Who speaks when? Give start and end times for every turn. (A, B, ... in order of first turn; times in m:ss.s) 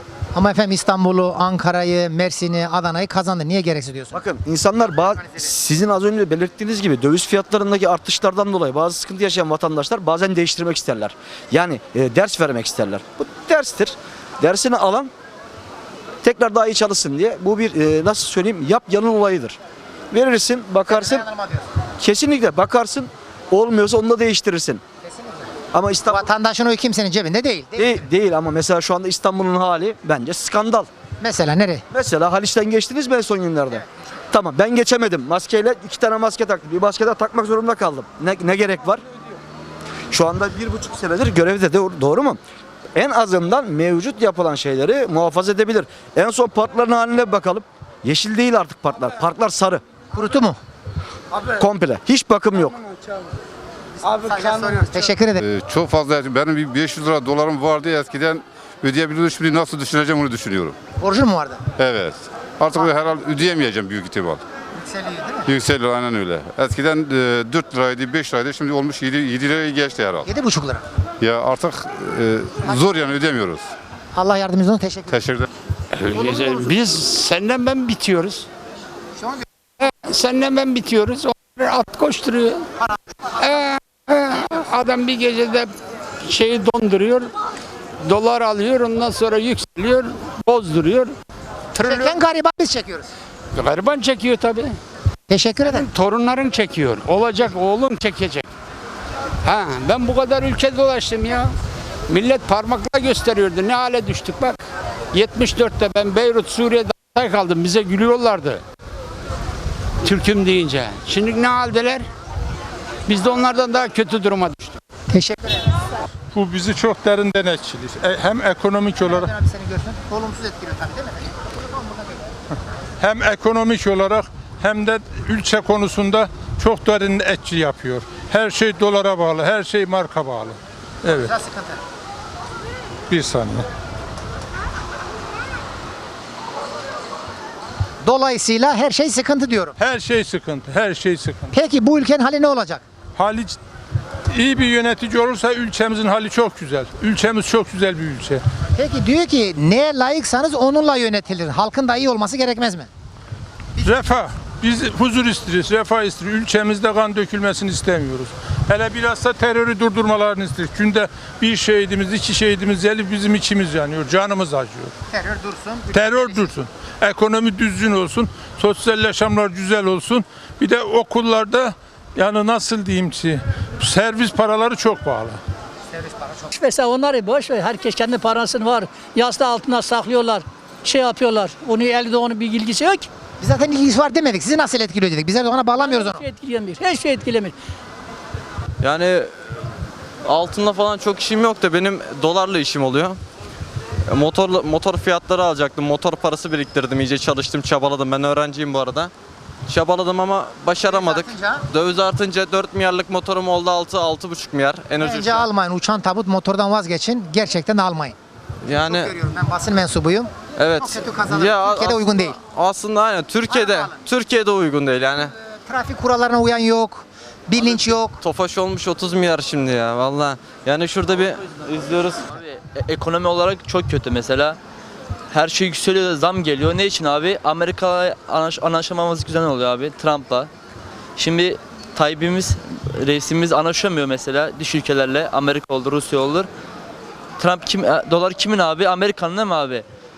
0:00.3-0:04.2 A
0:04.1-0:15.1 B
0:16.2-0:19.6 B
0:20.1-0:21.3 B
0:20.9-0:21.6 A
0:22.0-0:24.8 B
0:25.0-0:25.4 A
0:25.7-0:26.3 B
0:26.1-0:28.0 A
0:27.8-0:30.9 B
0:31.2-0:31.8 A
0:31.9-0:39.0 B
0:40.1-0:42.4 B
0:42.9-0:49.8 B
0:50.1-0:50.6 A
0:51.6-0:52.8 B
0:54.0-0:55.4 A
0:55.4-1:00.8 C
1:01.0-1:01.6 A
1:01.8-1:04.4 C
1:04.8-1:05.5 A
1:05.4-1:10.2 C
1:10.2-1:10.8 A
1:11.2-1:13.6 C
1:14.1-1:15.2 A
1:15.1-1:15.4 C
1:16.0-1:18.4 D
1:19.8-1:22.6 D
1:23.4-1:25.7 D
1:26.2-1:27.3 D
1:28.0-1:31.2 D
1:31.7-1:33.1 A
1:33.5-1:34.8 D
1:35.3-1:35.9 A
1:35.6-1:38.4 D
1:39.4-1:41.5 D
1:42.1-1:44.6 D
1:45.1-1:48.6 D
1:50.0-1:52.0 D
1:53.1-1:54.8 D
1:55.1-1:55.6 A
1:56.3-1:59.3 E
1:59.0-2:02.2 A
2:03.0-2:11.3 E
2:11.1-2:11.8 A
2:13.1-2:13.6 E
2:18.0-2:19.7 A
2:19.8-2:21.5 E
2:21.5-2:22.8 A
2:23.2-2:23.6 E
2:24.3-2:28.4 E
2:28.8-2:32.9 A
2:33.8-2:44.9 E
2:45.1-2:46.5 A
2:45.9-2:55.4 E
2:56.0-2:56.3 A
2:56.5-3:03.1 F
3:03.4-3:06.3 A
3:05.9-3:07.5 F
3:08.8-3:09.3 G
3:10.2-3:13.2 G
3:14.1-3:19.1 G
3:19.7-3:25.5 G
3:20.8-3:21.6 A
3:25.0-3:28.2 A
3:28.6-3:29.1 G
3:28.7-3:32.4 A
3:30.6-3:35.3 G
3:33.5-3:34.0 A
3:35.7-3:38.2 A
3:37.6-3:42.1 G
3:41.7-3:44.6 H
3:45.3-3:50.5 H
3:51.2-3:56.5 H
3:57.4-3:59.8 H